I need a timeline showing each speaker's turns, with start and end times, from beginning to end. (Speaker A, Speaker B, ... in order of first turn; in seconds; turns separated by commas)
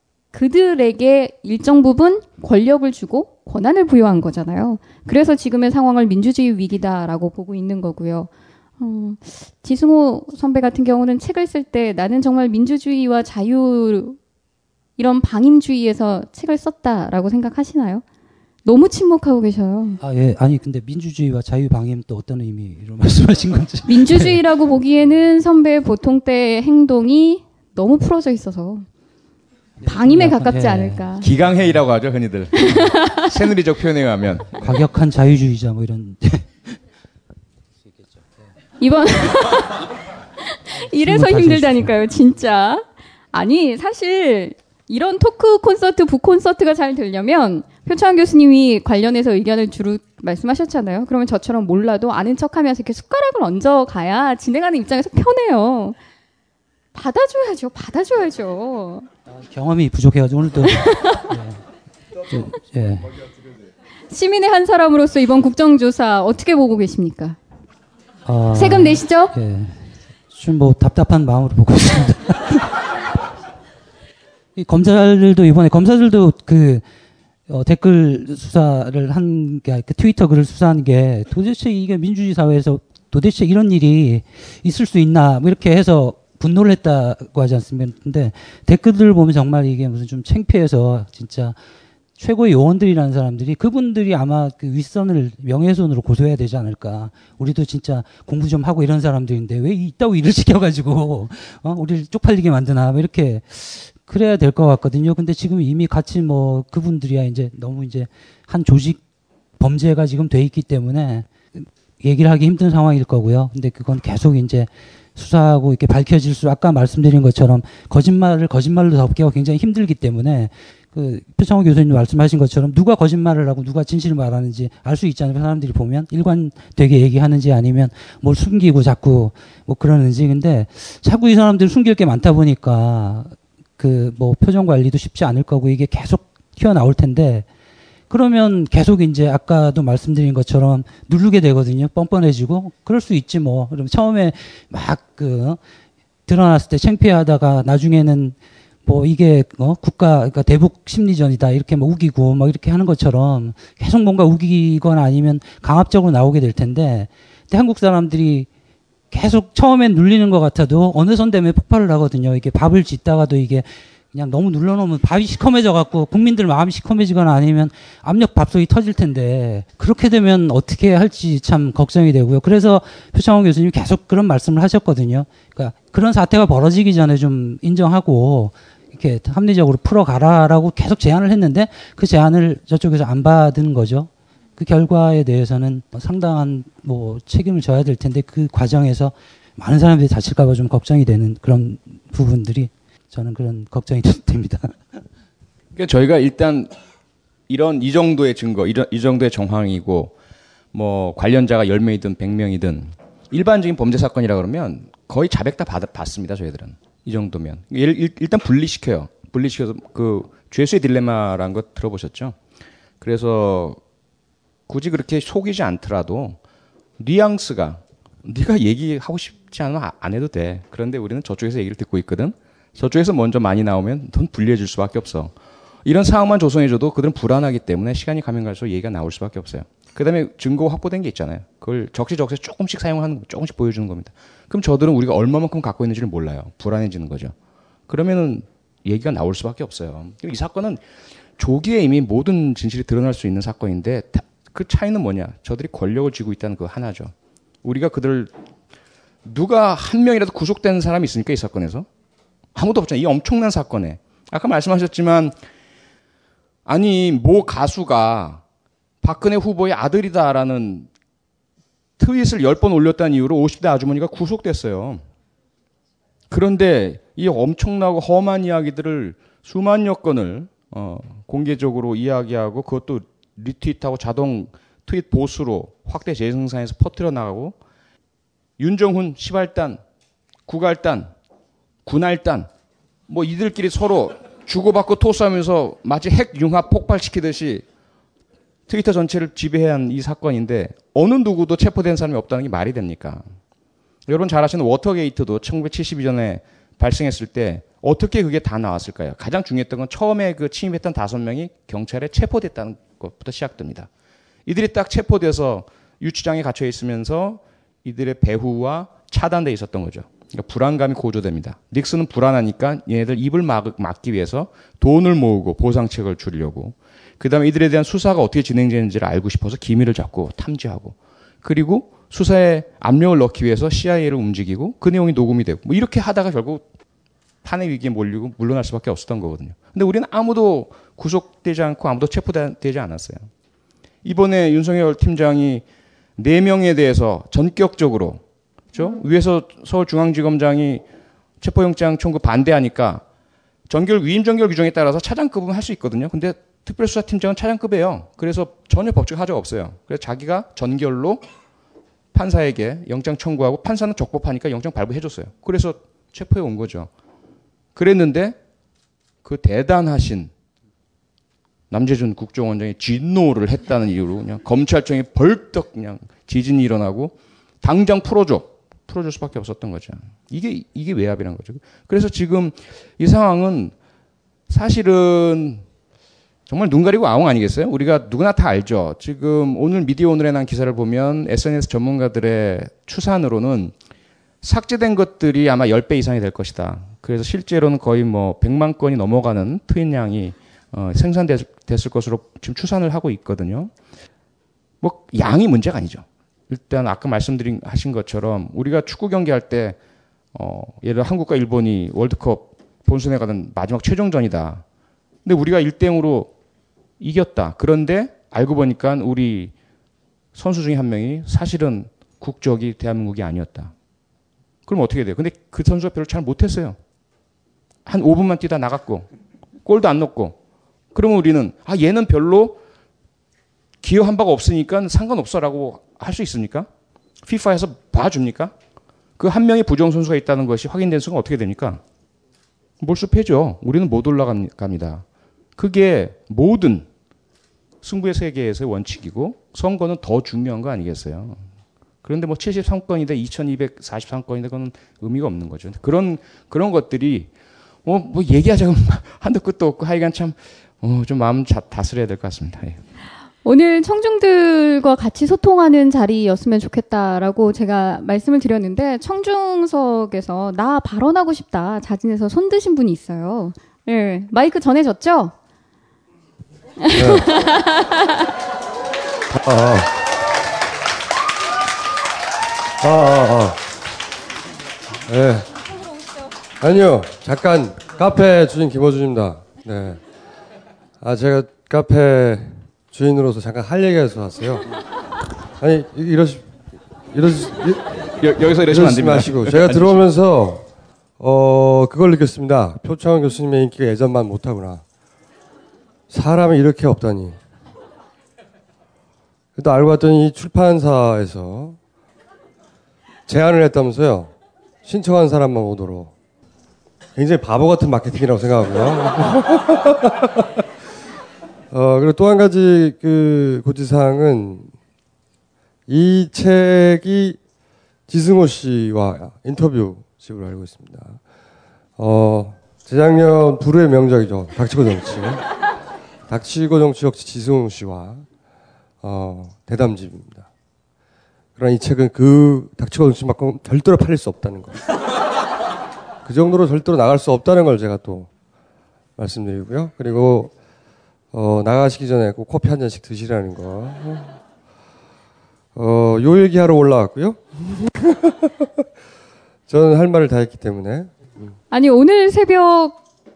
Speaker A: 0.3-14.2, Speaker A: 15.0-18.0, Speaker A: 18.6-20.0, Speaker B: 20.0-24.4, Speaker A: 23.9-28.9, Speaker B: 29.8-31.1, Speaker A: 29.8-31.3, Speaker C: 31.2-34.5, Speaker A: 32.5-33.3, Speaker B: 34.6-36.7, Speaker A: 38.8-39.9, Speaker A: 40.5-56.0, Speaker B: 41.0-41.9, Speaker A: 56.9-59.1, Speaker B: 59.3-61.6, Speaker A: 60.9-61.2, Speaker B: 62.3-63.2, Speaker A: 64.1-67.4, Speaker B: 68.2-72.8, Speaker A: 68.5-69.3, Speaker B: 74.6-76.8, Speaker B: 77.5-91.6, Speaker B: 92.2-109.0, Speaker B: 109.6-137.4, Speaker B: 138.1-145.6, Speaker B: 146.3-158.5, Speaker B: 159.1-195.0, Speaker C: 195.8-196.7, Speaker C: 197.5-200.1, Speaker C: 200.7-212.4, Speaker C: 213.0-213.8, Speaker C: 214.7-216.4, Speaker C: 217.0-225.3, Speaker C: 225.8-237.3, Speaker C: 237.9-240.8, Speaker C: 241.4-248.3, Speaker C: 249.2-251.9, Speaker C: 252.5-255.3, Speaker C: 256.6-258.4, Speaker C: 259.0-260.9, Speaker C: 262.0-265.0, Speaker C: 266.3-277.6, Speaker C: 278.6-279.8, Speaker C: 280.5-281.1, Speaker C: 281.8-282.5, Speaker C: 283.1-287.6, Speaker C: 288.7-293.2, Speaker C: 294.1-303.9, Speaker C: 304.4-326.6, Speaker C: 327.4-333.3, Speaker C: 334.0-335.6, Speaker C: 336.2-338.2, Speaker C: 338.7-340.8, Speaker C: 341.4-343.0, Speaker C: 343.7-351.2, Speaker C: 352.1-356.9, Speaker C: 357.7-358.4, Speaker C: 359.2-360.3, Speaker C: 361.7-373.7, Speaker C: 374.5-375.6, Speaker C: 376.5-383.7, Speaker C: 384.4-393.7, Speaker C: 394.8-399.8, Speaker C: 400.3-404.6, Speaker C: 405.2-406.3, Speaker C: 407.0-409.5, Speaker C: 410.3-413.7, Speaker C: 414.6-416.8, Speaker C: 417.9-419.1, Speaker C: 419.6-420.4, Speaker C: 420.9-422.6, Speaker C: 423.8-426.7, Speaker C: 427.2-428.5, Speaker C: 429.2-431.8, Speaker C: 432.8-435.0, Speaker C: 435.6-436.9, Speaker C: 437.8-441.4, Speaker C: 442.0-447.3, Speaker C: 447.8-452.8, Speaker A: 453.4-465.3, Speaker A: 466.8-468.0, Speaker D: 466.9-467.3, Speaker D: 469.3-469.9, Speaker D: 472.8-473.6, Speaker D: 475.1-475.5, Speaker D: 476.6-480.0, Speaker D: 481.0-484.6, Speaker D: 485.6-486.4, Speaker D: 487.1-488.0, Speaker C: 488.2-490.0, Speaker D: 488.6-490.6, Speaker D: 491.2-494.8, Speaker D: 496.1-497.4, Speaker D: 499.6-501.8, Speaker D: 503.3-504.3, Speaker D: 504.8-506.1, Speaker D: 507.1-510.4, Speaker D: 511.7-514.7, Speaker D: 515.9-517.4, Speaker D: 518.1-521.2, Speaker D: 522.0-525.4, Speaker D: 526.3-528.2, Speaker D: 529.0-530.5, Speaker D: 531.5-534.8, Speaker D: 536.2-538.3, Speaker D: 539.2-540.5, Speaker D: 541.3-544.4, Speaker D: 545.7-548.7, Speaker D: 549.7-551.5, Speaker A: 551.7-553.0